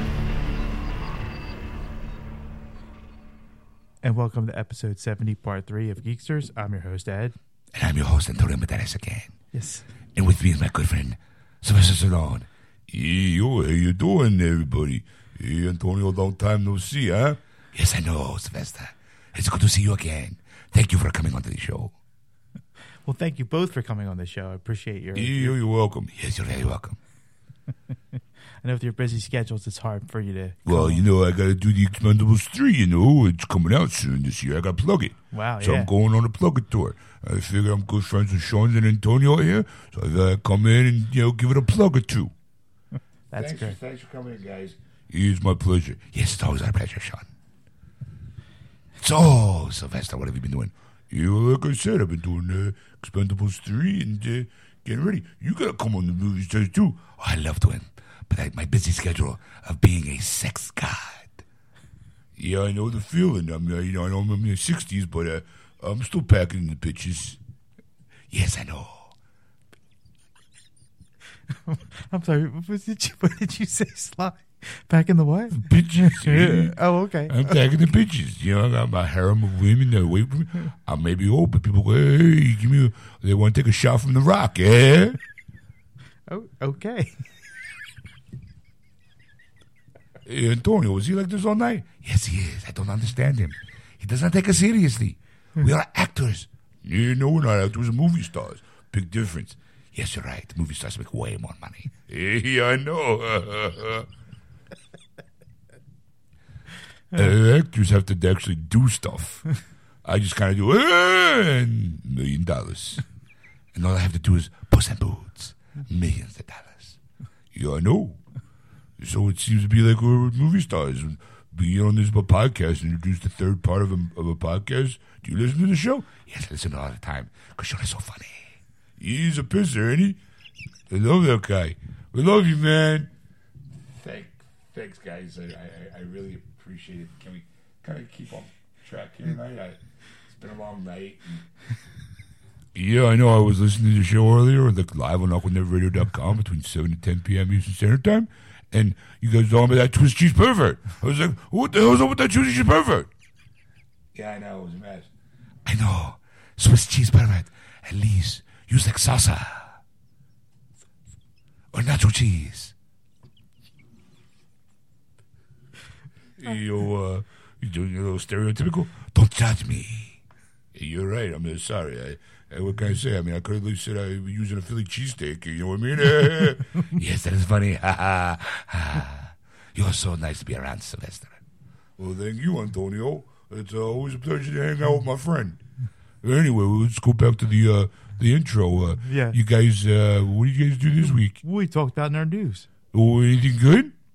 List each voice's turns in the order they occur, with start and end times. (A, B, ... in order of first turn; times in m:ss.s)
0:04.0-0:07.4 A
0:07.7-0:09.3 B
0:09.5-0:09.9 A
0:10.1-0:21.9 B
0:23.0-0:25.6 A
0:25.1-0:27.0 B
0:28.6-0:31.0 A
0:30.7-0:42.3 B
0:35.3-0:35.9 A
0:43.3-0:43.8 A
0:43.4-0:47.3 B
0:49.0-1:01.4 B
1:02.4-1:07.4 B
1:08.3-1:09.1 B
1:11.5-1:17.6 A
1:15.6-1:16.7 B
1:17.3-1:25.2 B
1:26.3-1:27.2 A
1:30.2-1:44.0 B
1:47.2-1:49.4 B
1:50.0-1:53.0 B
1:53.7-1:57.0 B
1:57.5-1:58.2 B
1:59.0-2:10.2 B
2:10.9-2:13.1 B
2:13.8-2:21.5 B
2:22.8-2:33.1 B
2:34.1-2:35.1 B
2:35.6-2:39.8 B
2:41.7-2:42.7 B
2:46.4-2:50.2 B
2:50.7-3:01.4 B
3:02.0-3:05.6 B
3:06.2-3:11.4 B
3:09.0-3:09.4 A
3:11.0-3:12.7 A
3:12.9-3:13.9 B